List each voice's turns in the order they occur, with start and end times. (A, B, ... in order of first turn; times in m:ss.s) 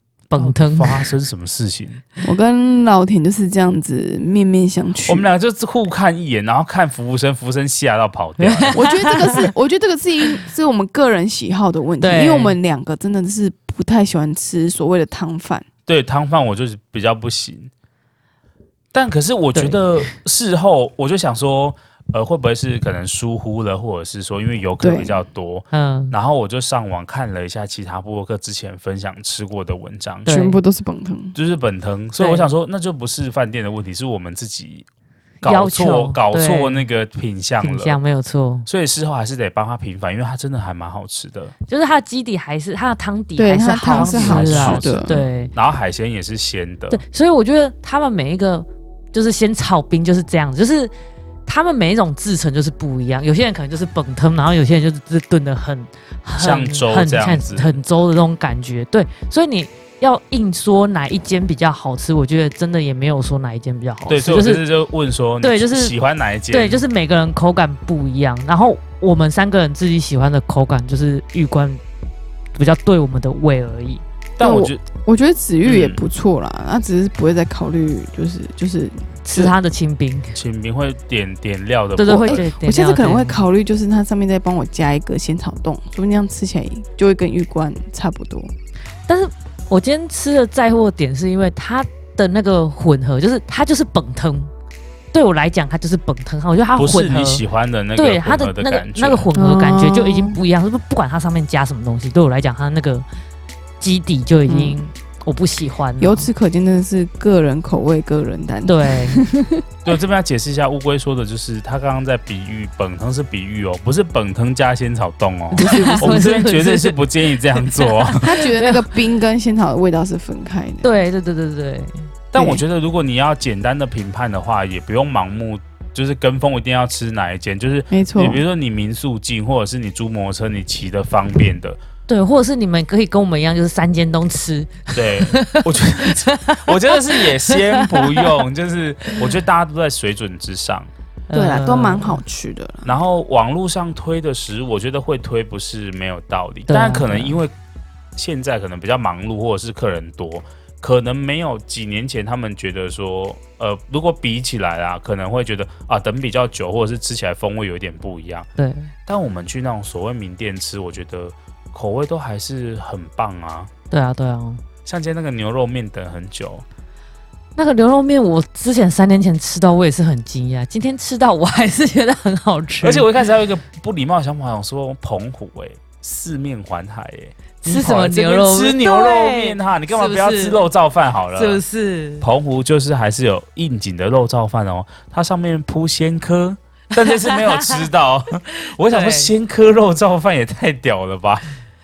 0:00.3-0:01.1 A
0:00.4-0:02.0 B
0:02.2-0:05.3 C
0:05.1-0:09.4 B
0:08.4-0:09.5 A
0:08.7-0:15.6 C
0:12.0-0:12.6 A
0:15.9-0:17.7 B
0:18.9-0:30.3 B
0:19.5-0:20.1 A
0:24.8-0:25.2 C
0:25.7-0:26.1 A
0:30.2-0:30.6 A
0:30.2-0:31.4 C
0:31.3-0:34.9 B
0:32.2-0:32.5 A
0:35.4-0:38.0 B
0:35.4-0:36.9 A
0:37.6-0:38.7 A
0:38.7-0:41.5 B
0:41.7-0:45.5 A
0:43.4-0:45.1 C
0:43.9-0:47.0 B
0:46.9-0:50.9 A
0:51.4-1:04.6 A
0:56.4-0:57.8 B
1:04.1-1:06.8 B
1:05.4-1:05.9 A
1:06.5-1:11.8 A
1:12.5-1:14.0 A
1:14.4-1:14.8 B
1:14.4-1:19.5 C
1:15.6-1:16.0 B
1:19.2-1:20.4 A
1:20.3-1:22.4 B
1:22.0-1:23.4 A
1:22.0-1:28.5 C
1:29.1-1:34.5 A
1:35.1-1:37.4 A
1:36.8-1:39.3 B
1:38.0-1:43.0 A
1:39.4-1:40.4 C
1:43.8-1:46.3 A
1:44.5-1:44.8 C
1:46.0-1:49.6 C
1:48.7-1:49.2 A
1:49.8-1:58.3 B
1:55.5-1:57.0 A
1:55.6-1:56.4 C
1:57.5-1:59.0 A
1:58.1-2:00.9 C
2:00.8-2:02.1 A
2:02.3-2:11.8 B
2:02.4-2:02.6 C
2:07.9-2:08.4 C
2:12.1-2:18.4 A
2:14.9-2:20.9 B
2:19.1-2:19.4 A
2:21.3-2:22.2 A
2:21.3-2:22.9 C
2:22.8-2:27.5 B
2:26.7-2:27.4 A
2:28.2-2:38.5 B
2:38.6-2:38.9 A
2:39.0-2:43.7 B
2:43.9-2:44.6 A
2:44.8-2:46.6 B
2:47.6-2:53.1 A
2:52.8-3:01.6 B
2:57.6-3:00.7 A
3:01.3-3:02.2 A
3:02.2-3:11.4 B
3:07.0-3:07.9 A
3:08.8-3:09.3 A